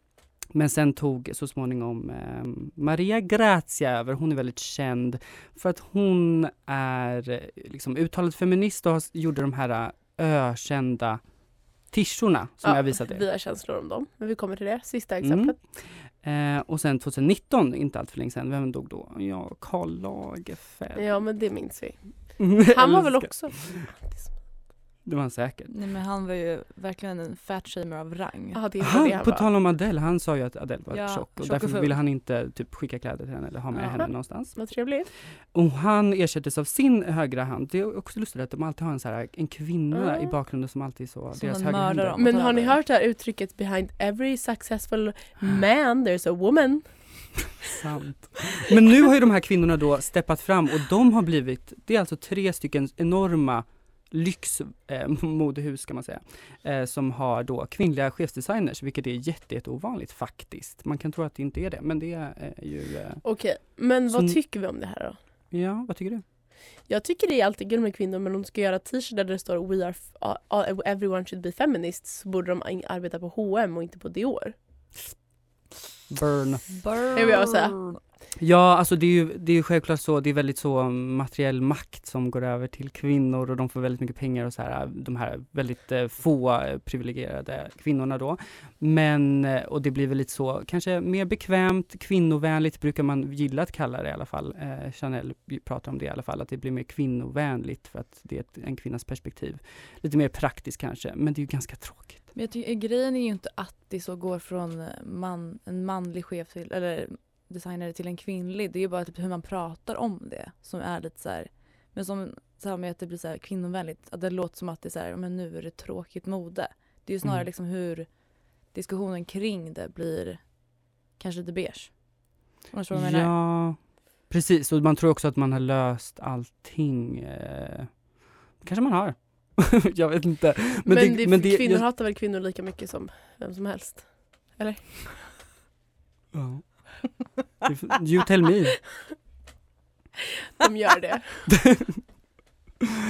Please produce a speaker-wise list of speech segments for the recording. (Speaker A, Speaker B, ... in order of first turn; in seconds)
Speaker A: 0.5-11.2, 11.9-13.2, 15.2-21.2, 22.4-23.9, 25.1-25.7, 28.8-34.6, 35.5-42.5, 47.6-63.3, 64.1-64.4, 65.5-66.2, 76.1-76.8, 78.4-102.3, 122.9-128.0, 128.6-131.8, 136.3-138.9, 141.5-142.0
Speaker B: 12.6-15.6, 21.0-24.3, 28.5-29.5, 34.5-35.1, 39.9-40.3, 42.2-47.0, 63.2-65.2, 66.9-74.5, 77.1-77.9, 130.9-135.4, 140.5-141.5
Speaker C: 25.7-28.6, 30.9-31.9, 33.7-34.1, 41.4-42.8, 76.7-78.0, 102.3-118.1, 118.7-120.7, 121.2-123.3